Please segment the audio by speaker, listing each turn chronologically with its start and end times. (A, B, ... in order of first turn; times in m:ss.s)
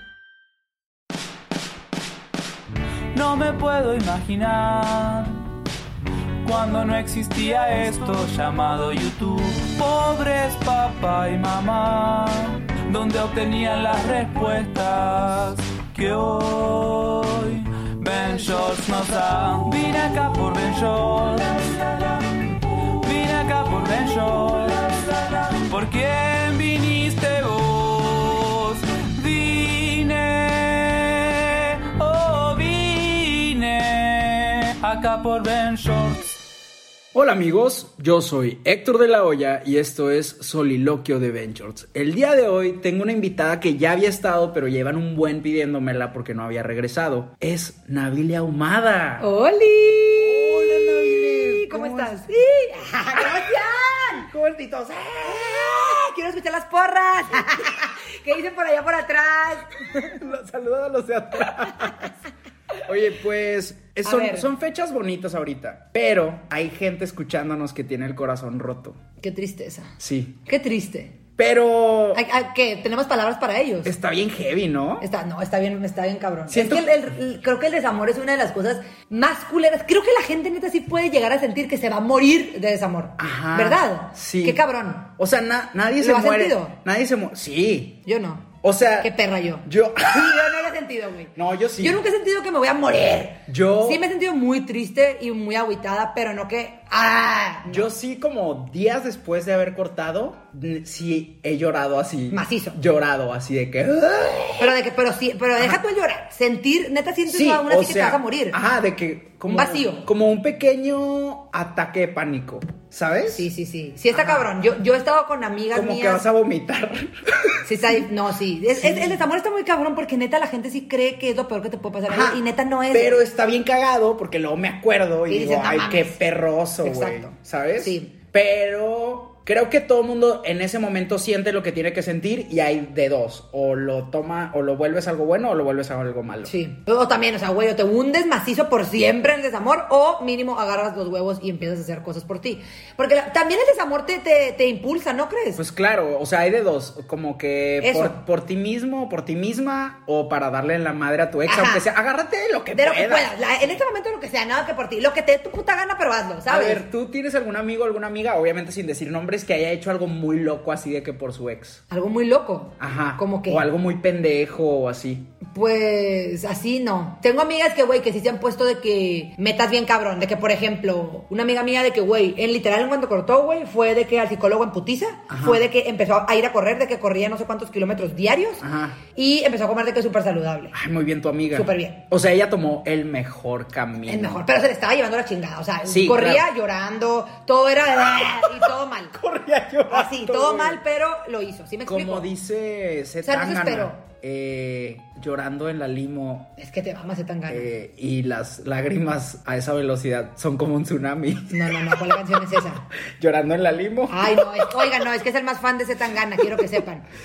0:03.1-0:05.6 A
0:06.4-0:36.3 A
0:37.1-0:49.3 B
0:49.2-0:54.3 C
0:50.2-0:52.2 B
0:53.1-0:56.0 B
0:55.2-1:00.2 C
1:00.0-1:02.1 B
1:02.8-1:09.0 B
1:04.0-1:04.5 C
1:09.2-1:11.2 C
1:10.0-1:10.4 B
1:11.4-1:12.2 B
1:12.1-1:13.9 C
1:13.8-1:15.1 B
1:15.0-1:25.1 C
1:16.5-1:16.9 B
1:23.2-1:24.6 B
1:25.2-1:28.0 B
1:26.0-1:26.8 C
1:28.1-1:37.9 C
1:28.6-1:29.1 B
1:29.6-1:30.7 B
1:31.4-1:32.0 B
1:33.5-1:34.0 B
1:37.7-1:44.7 B
1:42.3-1:42.8 C
1:44.6-1:48.6 C
1:47.3-1:53.5 B
1:49.5-1:50.0 C
1:53.3-1:56.2 C
1:54.1-1:54.5 B
1:55.7-1:57.7 B
1:57.6-2:03.2 C
1:58.7-1:59.2 B
2:02.1-2:16.6 B
2:05.3-2:06.2 C
2:06.8-2:08.1 C
2:16.5-2:25.6 C
2:25.6-2:33.4 B
2:27.8-2:28.2 C
2:31.5-2:31.8 C
2:32.7-2:36.8 C
2:36.5-2:41.8 B
2:41.9-2:43.6 C
2:42.8-2:45.3 B
2:45.5-3:00.7 C
2:55.3-2:55.6 B
2:58.6-2:59.0 B
3:00.7-3:04.4 B
3:01.5-3:02.0 C
3:04.1-3:09.2 C
3:05.8-3:06.5 B
3:08.1-3:10.8 B
3:09.9-3:12.3 C
3:11.9-3:16.5 B
3:13.2-3:14.0 C
3:16.6-3:17.7 C
3:17.5-3:22.0 B
3:21.5-3:22.8 C
3:23.2-3:24.9 B
3:24.1-3:27.0 C
3:26.4-3:26.8 B